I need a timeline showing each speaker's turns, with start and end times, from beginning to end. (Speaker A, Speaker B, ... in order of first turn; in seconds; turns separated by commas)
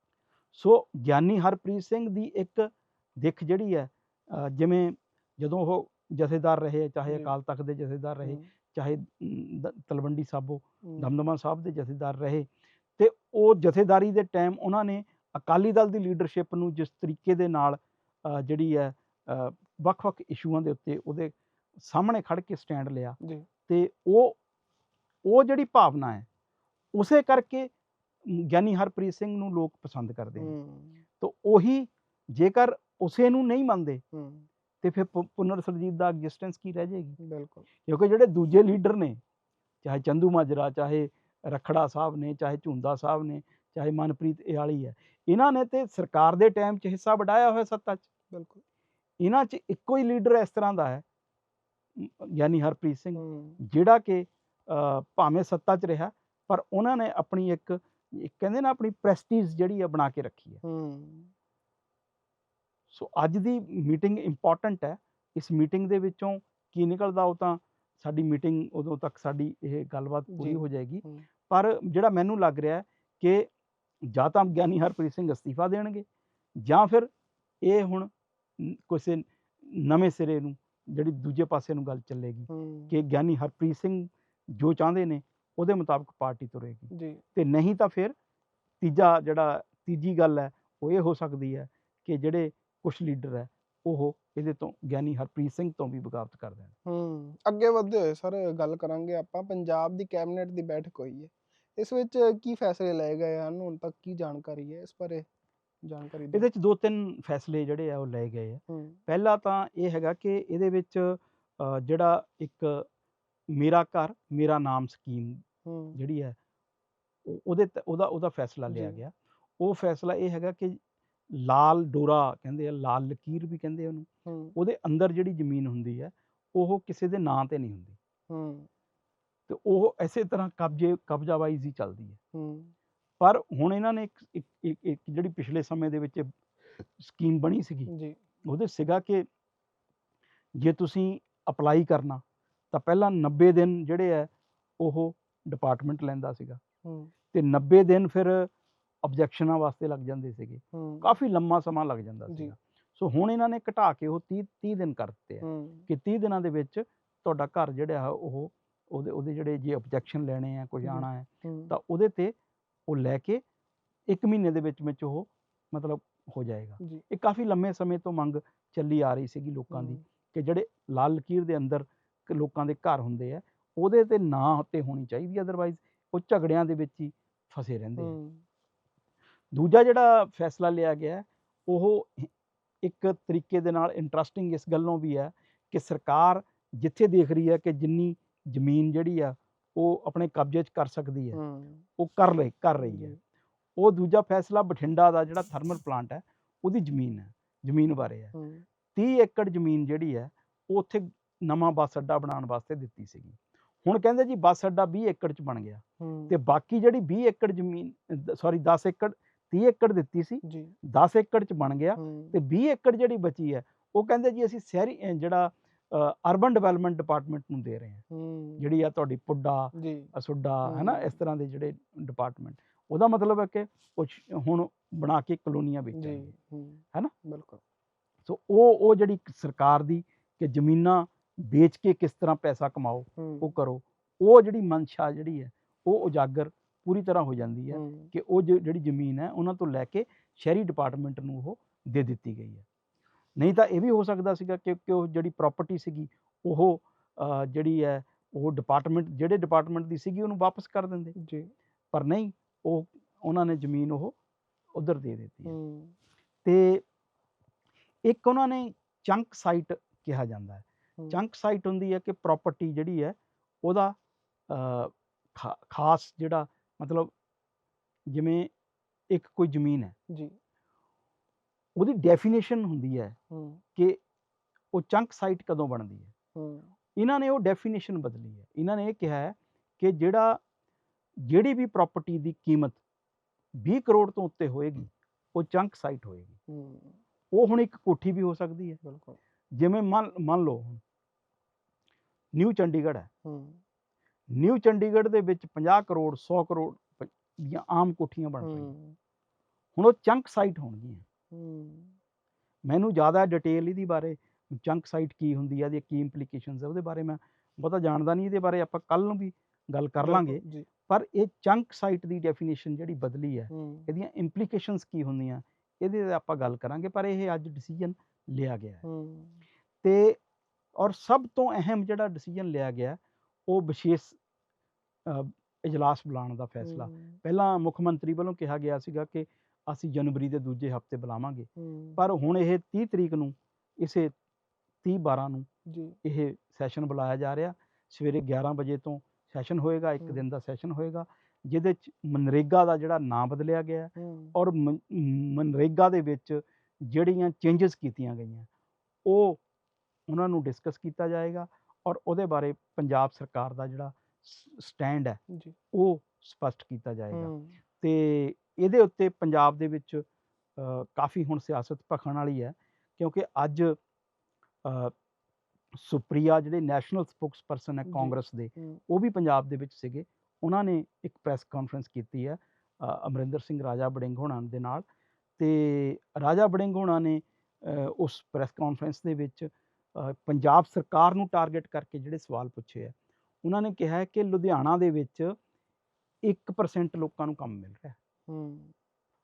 Speaker A: 0.5-24.4, Speaker B: 10.8-11.1, Speaker B: 23.2-23.4, Speaker A: 25.2-26.2, Speaker A: 26.9-27.7, Speaker A: 28.2-30.5, Speaker B: 30.4-31.0, Speaker A: 31.2-34.0, Speaker B: 34.1-34.5, Speaker A: 34.8-37.2, Speaker B: 37.2-37.7, Speaker A: 37.9-39.2, Speaker A: 39.8-48.0, Speaker B: 48.3-48.6, Speaker A: 49.2-51.0, Speaker A: 52.0-60.6, Speaker B: 53.1-53.6, Speaker B: 60.6-61.3, Speaker A: 62.9-73.5, Speaker B: 70.3-71.2, Speaker A: 74.1-76.0, Speaker A: 76.6-77.1, Speaker A: 77.6-88.1, Speaker B: 82.5-82.9, Speaker B: 86.9-87.2, Speaker A: 88.8-96.7, Speaker B: 96.8-105.2, Speaker B: 105.8-106.5, Speaker A: 106.3-112.8, Speaker B: 108.7-109.0, Speaker A: 113.5-116.4, Speaker B: 115.6-116.0, Speaker A: 117.2-120.8, Speaker B: 118.7-119.0, Speaker A: 121.3-128.0, Speaker B: 124.2-124.5, Speaker B: 128.3-128.7, Speaker A: 129.5-132.2, Speaker B: 132.3-132.7, Speaker A: 133.2-136.3, Speaker A: 136.8-137.9, Speaker B: 137.9-138.2, Speaker A: 138.4-139.2, Speaker A: 140.6-146.6, Speaker B: 146.8-147.1, Speaker A: 147.3-148.5, Speaker A: 149.0-162.3, Speaker B: 150.7-151.1, Speaker B: 152.3-152.5, Speaker B: 155.4-155.9, Speaker B: 160.8-161.7, Speaker A: 162.9-163.4, Speaker A: 164.1-178.2, Speaker B: 169.7-170.0, Speaker B: 178.0-178.4, Speaker A: 179.5-182.3, Speaker A: 182.8-191.4, Speaker B: 191.3-191.8, Speaker A: 192.0-193.2, Speaker B: 192.8-193.2, Speaker A: 193.8-198.3, Speaker B: 198.3-198.7, Speaker A: 198.9-218.0, Speaker B: 206.0-206.3, Speaker B: 210.4-210.7, Speaker B: 212.0-212.3, Speaker B: 218.1-218.8, Speaker A: 218.6-226.3, Speaker B: 219.7-220.1, Speaker B: 220.7-221.2, Speaker B: 225.9-227.6, Speaker A: 228.2-242.6, Speaker B: 233.2-233.5, Speaker B: 237.7-238.1, Speaker A: 243.4-251.2, Speaker B: 251.2-251.5, Speaker A: 251.9-254.1, Speaker A: 254.7-255.6, Speaker B: 255.4-255.9, Speaker A: 256.4-256.8, Speaker A: 258.0-263.9, Speaker A: 264.5-267.1, Speaker A: 268.1-268.5, Speaker A: 269.1-269.9, Speaker B: 270.1-270.4, Speaker A: 271.8-273.2, Speaker B: 273.3-273.6, Speaker A: 274.7-276.1, Speaker B: 276.3-276.7, Speaker A: 276.9-280.4, Speaker A: 281.3-282.8, Speaker A: 283.6-286.4, Speaker B: 286.5-287.0, Speaker A: 287.3-288.8, Speaker B: 288.8-289.2, Speaker A: 289.5-290.8, Speaker A: 292.3-293.1, Speaker B: 293.2-293.6, Speaker A: 294.3-298.7, Speaker B: 298.4-298.9, Speaker A: 299.7-301.0, Speaker B: 301.3-301.9, Speaker A: 302.6-318.8, Speaker B: 310.0-310.7, Speaker B: 313.5-313.9, Speaker B: 318.8-319.4, Speaker A: 319.8-320.2, Speaker A: 320.8-324.2, Speaker A: 325.1-334.1, Speaker B: 326.6-327.2, Speaker B: 331.6-332.0, Speaker A: 334.8-335.5, Speaker B: 335.7-335.9, Speaker A: 336.0-348.5, Speaker B: 344.0-344.4, Speaker A: 349.0-349.4, Speaker A: 350.1-355.2, Speaker B: 355.3-355.6, Speaker A: 355.7-360.0, Speaker B: 357.1-357.5, Speaker A: 360.6-363.8, Speaker A: 364.6-364.9, Speaker A: 365.7-374.8, Speaker B: 367.9-368.8, Speaker A: 375.4-385.4, Speaker A: 386.2-388.0, Speaker B: 388.3-388.7